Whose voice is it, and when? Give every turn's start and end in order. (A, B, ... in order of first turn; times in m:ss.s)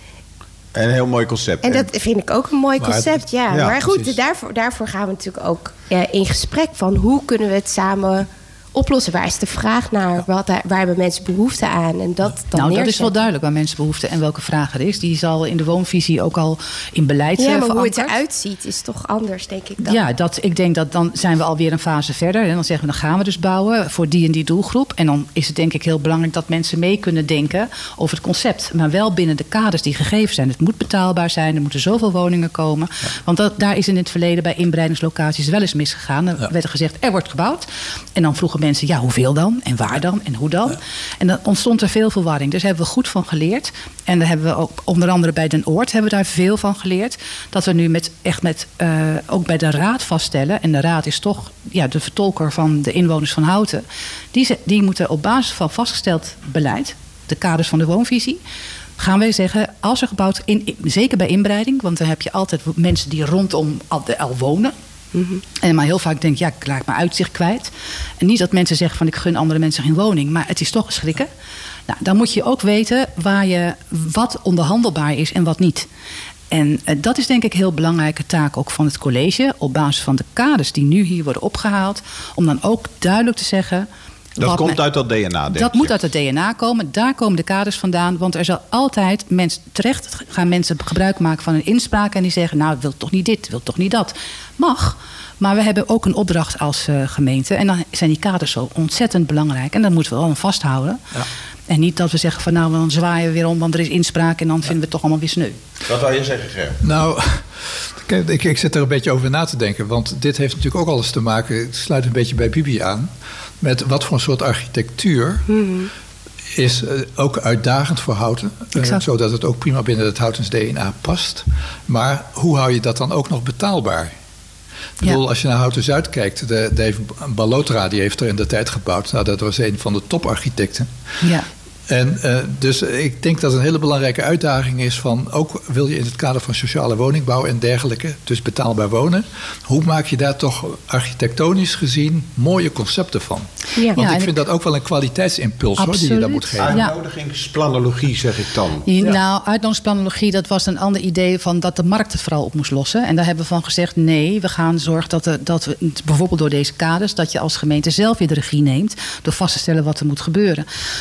0:00.7-0:01.9 A
0:01.6-0:13.2 B
0:02.8-0:04.2 C
0:03.5-0:03.8 A
0:12.5-0:18.2 D
0:17.4-0:20.0 B
0:19.8-0:58.4 D
0:59.0-1:04.7 D
1:05.1-1:05.4 B
1:05.6-1:11.3 D
1:11.9-1:15.9 D
1:16.5-1:23.9 D
1:24.4-1:24.8 D
1:24.4-1:26.0 A
1:25.5-1:41.0 D
1:41.7-1:45.6 D
1:45.8-1:46.8 A
1:46.8-1:53.1 C
1:53.6-1:55.5 C
1:55.5-1:55.9 B
1:56.5-2:04.1 C
1:58.7-1:59.0 D
2:05.0-2:10.9 C
2:11.9-2:26.8 C
2:23.9-2:24.3 D
2:25.8-2:26.9 D
2:26.6-2:28.8 A
2:28.8-2:40.6 D